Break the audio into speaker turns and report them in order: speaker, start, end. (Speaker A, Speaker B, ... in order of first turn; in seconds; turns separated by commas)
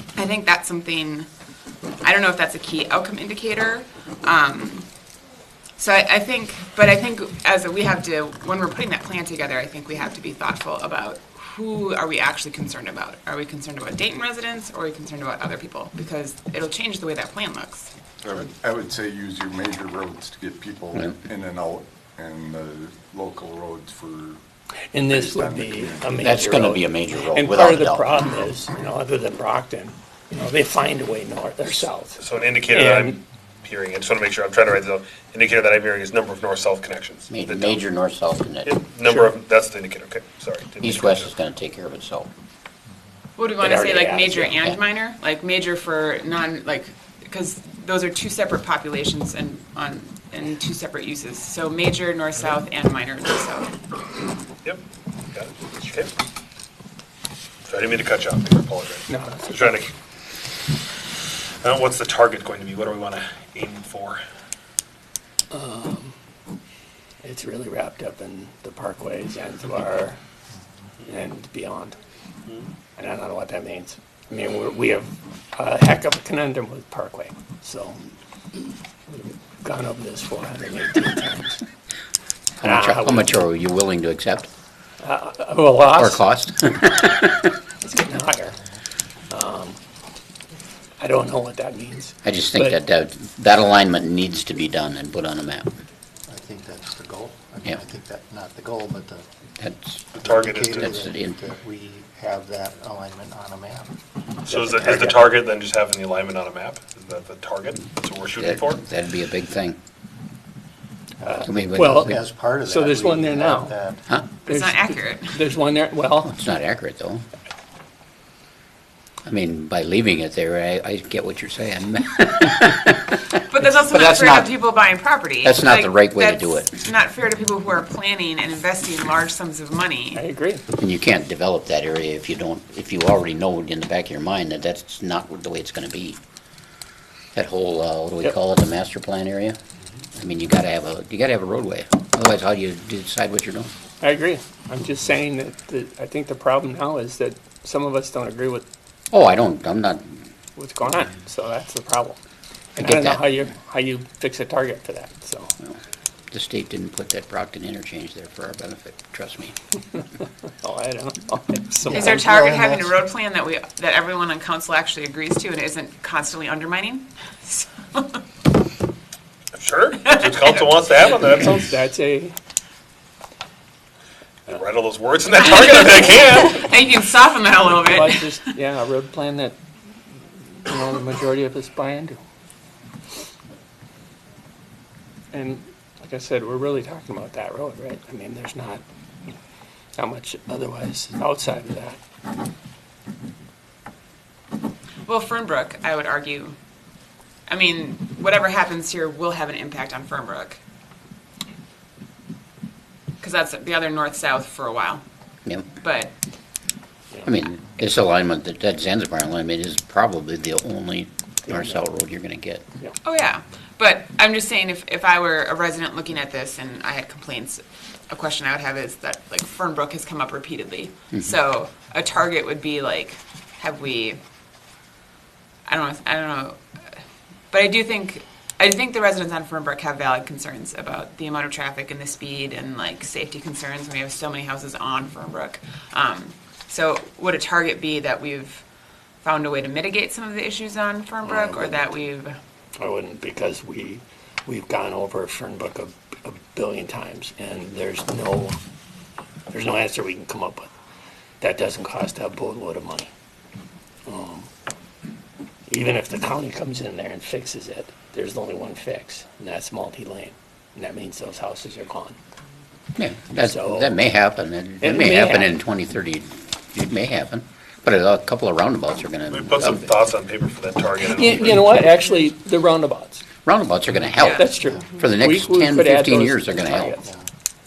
Speaker A: 0.1-1.3, Speaker A: 2.0-4.9, Speaker A: 5.8-17.9, Speaker B: 18.2-24.4, Speaker C: 24.9-32.2, Speaker B: 24.9-26.3, Speaker D: 26.2-28.1, Speaker E: 32.2-37.8, Speaker C: 32.7-33.2, Speaker D: 37.3-38.7, Speaker E: 38.6-41.3, Speaker C: 39.0-39.3, Speaker D: 40.8-42.3, Speaker A: 43.4-53.7, Speaker C: 43.6-44.8, Speaker E: 55.3-56.1, Speaker E: 57.7-59.9, Speaker C: 59.1-59.9, Speaker E: 61.6-64.2, Speaker C: 65.5-66.1, Speaker C: 67.2-70.2, Speaker C: 71.0-72.0, Speaker C: 73.0-78.0, Speaker C: 79.1-81.6, Speaker C: 82.6-83.4, Speaker D: 82.6-84.5, Speaker C: 85.0-86.2, Speaker D: 85.9-87.5, Speaker C: 87.8-88.6, Speaker C: 89.3-89.8, Speaker C: 91.0-92.8, Speaker D: 92.2-95.7, Speaker F: 96.3-99.2, Speaker D: 99.6-100.0, Speaker E: 100.1-101.0, Speaker F: 100.2-103.9, Speaker D: 100.8-101.4, Speaker C: 104.5-105.2, Speaker E: 104.5-108.8, Speaker D: 108.4-109.8, Speaker C: 111.2-113.8, Speaker D: 111.4-112.2, Speaker F: 111.9-114.0, Speaker A: 114.5-115.4, Speaker C: 114.5-116.3, Speaker D: 116.2-117.2, Speaker D: 119.2-124.5, Speaker A: 123.5-130.2, Speaker D: 125.4-126.8, Speaker C: 130.1-130.6, Speaker D: 130.7-136.2, Speaker D: 137.3-139.6, Speaker D: 140.1-143.7, Speaker C: 144.0-148.6, Speaker D: 149.1-150.2, Speaker C: 150.6-152.2, Speaker D: 152.8-153.2, Speaker C: 152.8-155.5, Speaker D: 156.3-159.6, Speaker C: 160.5-162.3, Speaker F: 161.8-163.0, Speaker A: 161.9-168.2, Speaker E: 169.5-171.8, Speaker A: 170.1-170.7, Speaker C: 171.1-172.3, Speaker E: 174.4-176.6, Speaker A: 175.4-178.3, Speaker C: 177.7-179.6, Speaker C: 180.6-182.2, Speaker C: 185.3-188.8, Speaker C: 190.0-192.0, Speaker A: 195.1-196.6, Speaker A: 197.5-200.6, Speaker A: 203.2-205.0, Speaker A: 205.8-206.1, Speaker D: 207.2-212.6, Speaker C: 211.5-211.8, Speaker A: 213.0-224.2, Speaker A: 225.7-226.6, Speaker A: 227.5-238.6, Speaker A: 239.2-242.4, Speaker C: 241.2-241.8, Speaker C: 242.8-248.6, Speaker C: 249.5-250.7, Speaker C: 251.4-253.1, Speaker C: 254.1-254.5, Speaker C: 255.7-262.2, Speaker D: 263.0-269.9, Speaker C: 263.3-263.9, Speaker C: 264.8-265.5, Speaker E: 269.3-271.7, Speaker C: 271.0-273.2, Speaker D: 273.4-276.9, Speaker A: 274.2-274.5, Speaker C: 274.3-277.0, Speaker F: 276.9-277.3